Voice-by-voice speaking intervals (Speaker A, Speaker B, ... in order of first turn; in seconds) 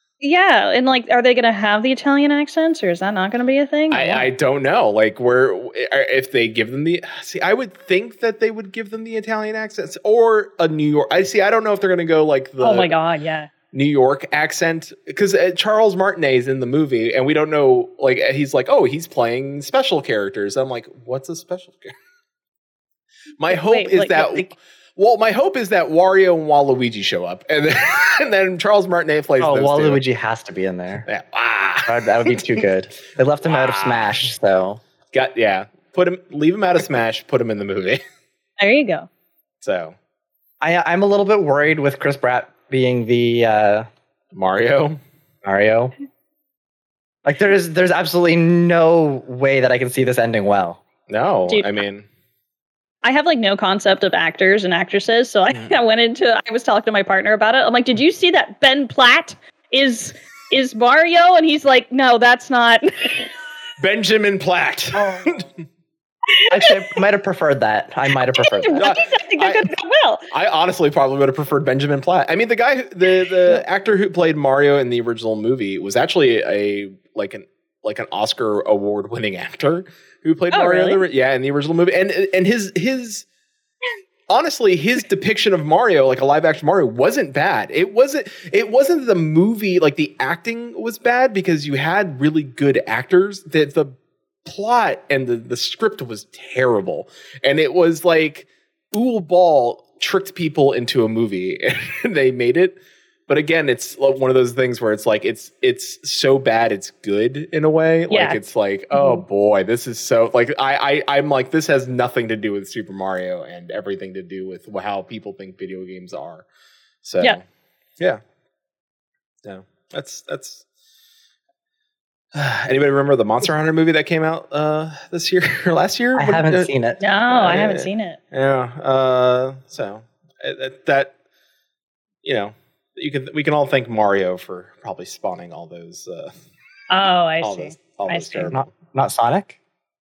Speaker A: 0.2-4.3, 12.6-13.5, 23.5-24.5, 38.6-39.1, 51.5-51.8, 53.0-63.3, 66.3-67.0, 68.3-70.2, 80.5-81.0, 108.1-108.4, 108.9-109.2, 127.0-128.2, 136.9-138.5
Speaker B: 3.9-12.9, 13.7-21.9, 23.4-30.0, 31.1-32.5, 33.5-34.1, 35.1-38.0, 39.6-40.0, 44.3-45.0, 51.1-52.1, 63.8-65.5, 68.8-69.7, 70.3-83.2, 84.3-93.9, 94.4-116.5, 117.0-117.4, 119.4-120.6, 122.3-126.7, 127.3-131.1, 132.2-136.3, 137.4-138.7
Speaker C: 29.4-31.1, 31.8-34.8, 40.6-43.9, 45.4-45.9, 47.2-50.8, 64.9-65.4, 66.5-68.9, 126.2-127.0, 138.5-139.6